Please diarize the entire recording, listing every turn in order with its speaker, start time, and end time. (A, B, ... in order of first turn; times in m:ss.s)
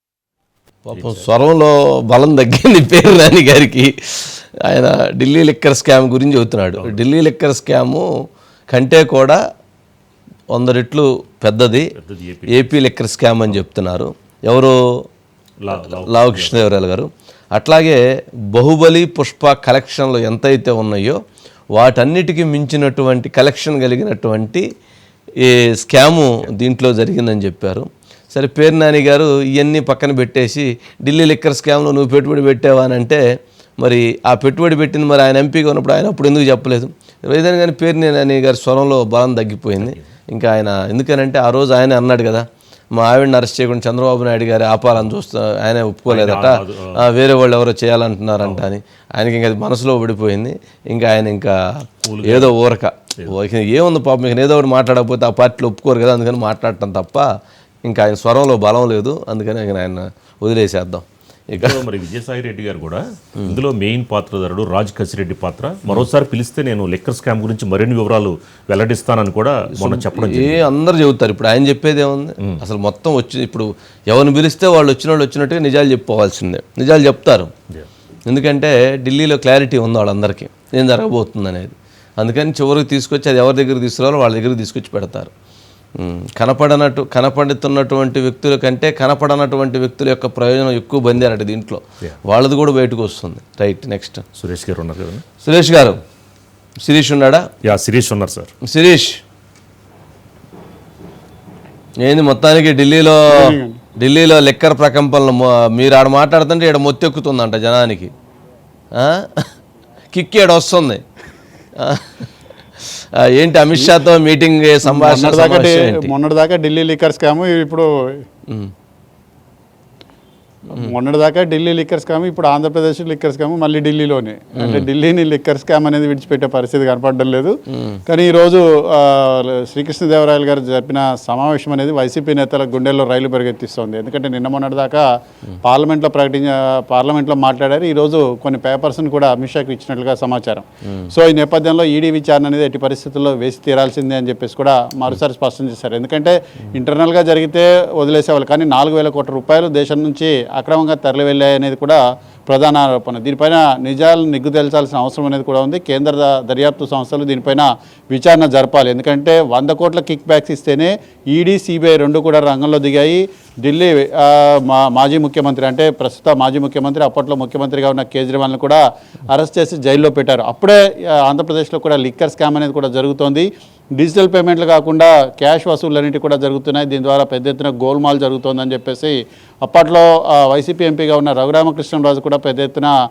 0:00.9-0:08.0 A
0:00.9-0:01.3 B
0:08.7-0:09.4 A
0:10.5-0:11.9 A
0:12.0-0:12.7 B
0:12.5-0:14.7 A
0:15.6-0:16.7 B
0:15.7-0:18.0 A
0:18.5-0:21.2 A
0:21.8-0:24.6 A
0:25.4-0:33.2 A
0:33.8-0:42.4 A
0:39.8-0:40.1 B
0:43.0-0:51.5 A
0:46.1-0:47.0 B
0:48.4-0:48.7 B
0:52.0-0:52.6 B
0:52.3-0:57.3 A
0:57.8-1:01.8 A
1:01.5-1:10.7 B
1:09.8-1:17.5 A
1:18.3-1:25.3 A
1:26.0-1:34.2 A
1:34.4-1:35.2 B
1:35.4-1:36.0 A
1:36.8-1:37.5 A
1:37.6-1:38.5 B
1:38.7-1:39.2 A
1:42.0-1:48.1 A
1:43.3-1:43.8 C
1:49.0-1:49.5 A
1:50.1-1:51.0 A
1:51.8-1:52.2 A
1:53.2-1:56.1 A
1:54.8-1:57.9 C
1:58.5-1:58.7 A
2:00.7-2:07.5 C
2:04.6-2:04.8 A
2:08.1-2:15.0 C
2:15.6-3:02.9 C